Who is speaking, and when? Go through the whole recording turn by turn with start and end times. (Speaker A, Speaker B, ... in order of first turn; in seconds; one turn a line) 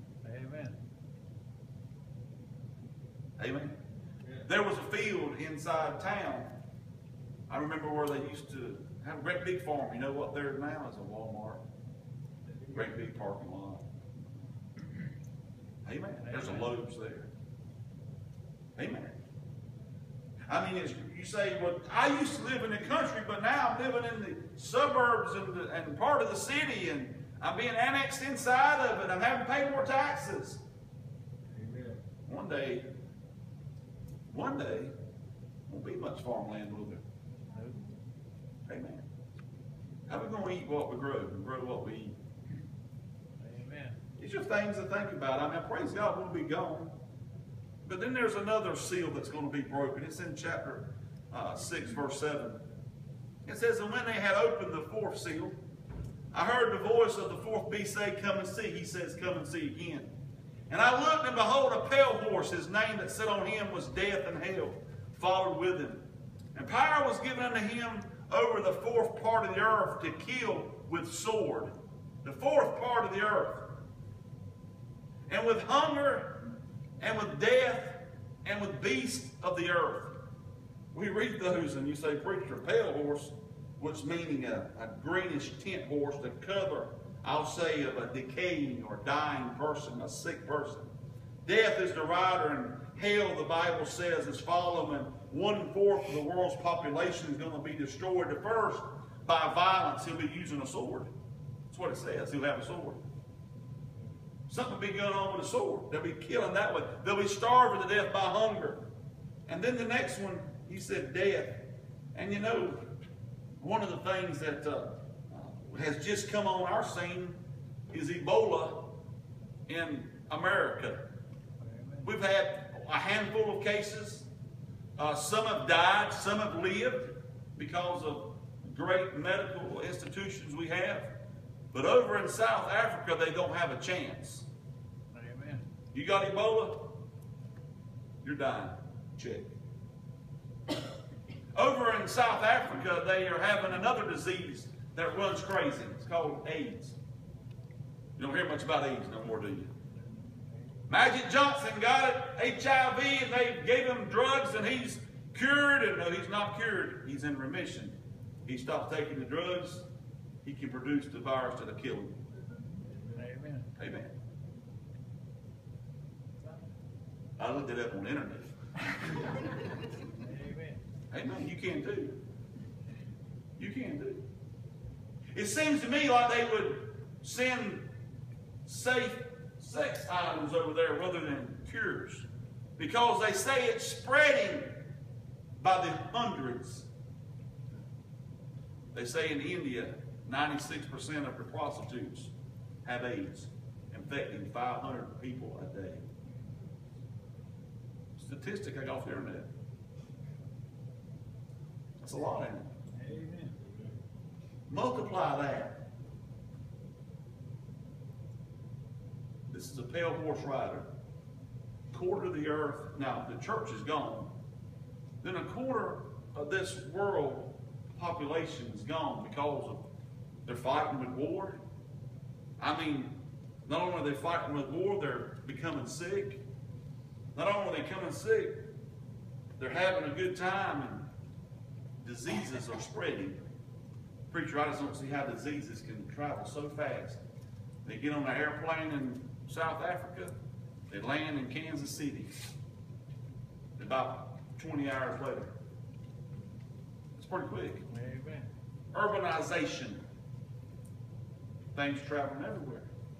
Speaker A: 0.2-0.8
Speaker B: 3.4-3.8
Speaker C: 4.2-4.5
Speaker B: 4.4-6.5
Speaker B: 7.5-11.6
Speaker C: 12.4-13.0
Speaker B: 12.7-13.8
Speaker B: 15.8-17.3
Speaker A: 16.2-16.7
Speaker B: 18.8-19.1
Speaker B: 20.5-30.6
Speaker C: 31.5-32.0
Speaker B: 32.2-32.9
Speaker B: 34.3-34.9
Speaker B: 35.7-37.0
Speaker A: 37.5-37.9
Speaker B: 38.6-39.0
Speaker B: 40.1-42.2
Speaker A: 43.4-44.0
Speaker B: 44.2-46.9
Speaker B: 47.8-52.6
Speaker B: 53.5-55.6
Speaker B: 56.3-60.1
Speaker B: 60.7-66.0
Speaker B: 66.5-73.7
Speaker B: 75.3-76.4
Speaker B: 77.0-80.2
Speaker B: 80.9-90.9
Speaker B: 91.4-101.1
Speaker B: 101.7-103.0
Speaker B: 104.5-108.8
Speaker B: 109.5-112.9
Speaker B: 113.6-117.4
Speaker B: 117.9-118.9
Speaker B: 119.7-121.0
Speaker A: 121.6-122.1
Speaker B: 122.0-124.3
Speaker B: 125.0-131.1
Speaker B: 131.7-134.5
Speaker A: 135.1-135.6
Speaker B: 135.9-137.0
Speaker B: 138.2-139.5
Speaker B: 141.5-147.0
Speaker B: 148.2-149.7
Speaker B: 150.9-159.9
Speaker B: 160.4-162.2
Speaker C: 162.8-163.2
Speaker A: 163.1-163.7
Speaker B: 163.8-164.1
Speaker B: 167.4-168.5
Speaker A: 170.1-170.8
Speaker B: 171.1-172.2
Speaker B: 173.6-174.2
Speaker B: 175.3-177.9
Speaker B: 178.6-182.2
Speaker B: 182.8-184.8
Speaker B: 185.6-186.9
Speaker B: 188.9-192.3
Speaker B: 192.8-196.0
Speaker B: 198.2-199.5
Speaker B: 202.0-202.7
Speaker A: 202.9-203.6
Speaker C: 203.5-204.0
Speaker B: 204.7-205.8
Speaker B: 209.5-210.9
Speaker B: 211.9-214.3
Speaker B: 215.2-219.8
Speaker B: 220.4-221.6
Speaker B: 222.6-226.4
Speaker B: 227.3-228.6
Speaker B: 229.6-231.1
Speaker B: 232.0-233.4
Speaker B: 234.3-237.2
Speaker B: 237.8-240.3
Speaker B: 240.9-242.4
Speaker B: 243.8-245.5
Speaker B: 247.2-247.8
Speaker A: 247.9-248.5
Speaker B: 248.9-250.0
Speaker B: 251.7-252.9